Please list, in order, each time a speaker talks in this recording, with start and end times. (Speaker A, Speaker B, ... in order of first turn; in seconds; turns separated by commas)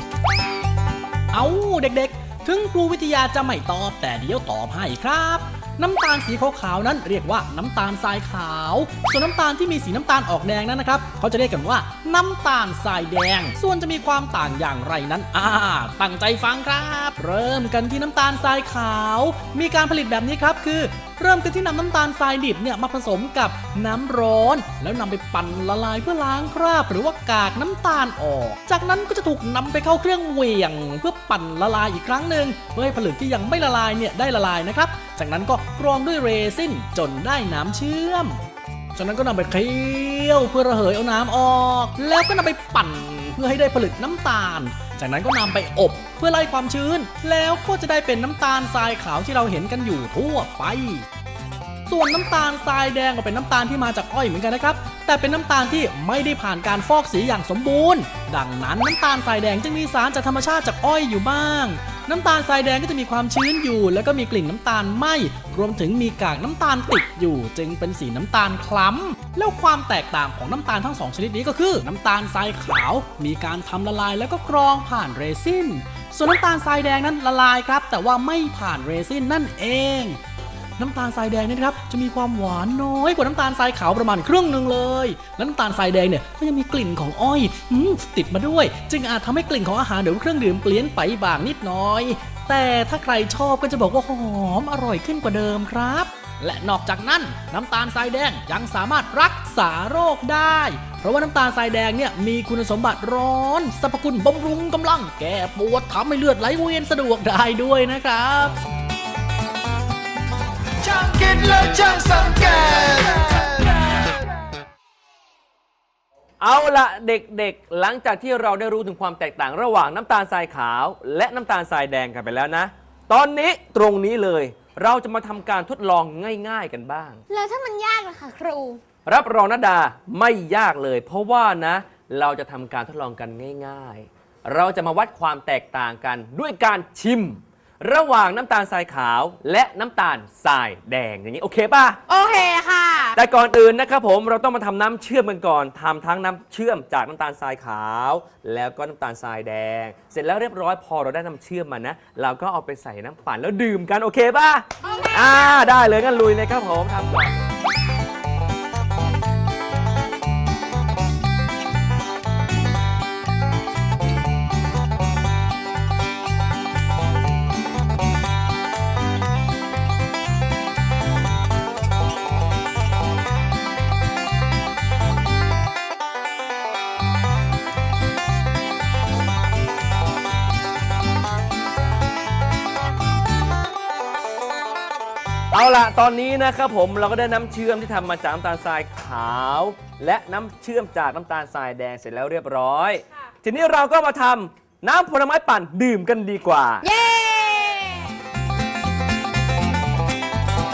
Speaker A: 1.3-38.4, Speaker A: 39.0-51.0, Speaker A: 51.9-80.2, Speaker A: 80.8-108.5, Speaker B: 110.8-114.1, Speaker C: 116.4-127.2, Speaker D: 127.3-128.8, Speaker C: 129.1-142.0, Speaker D: 142.1-143.1, Speaker E: 142.2-142.9, Speaker C: 143.1-157.3, Speaker D: 154.8-155.6, Speaker C: 185.5-196.8, Speaker E: 196.8-198.1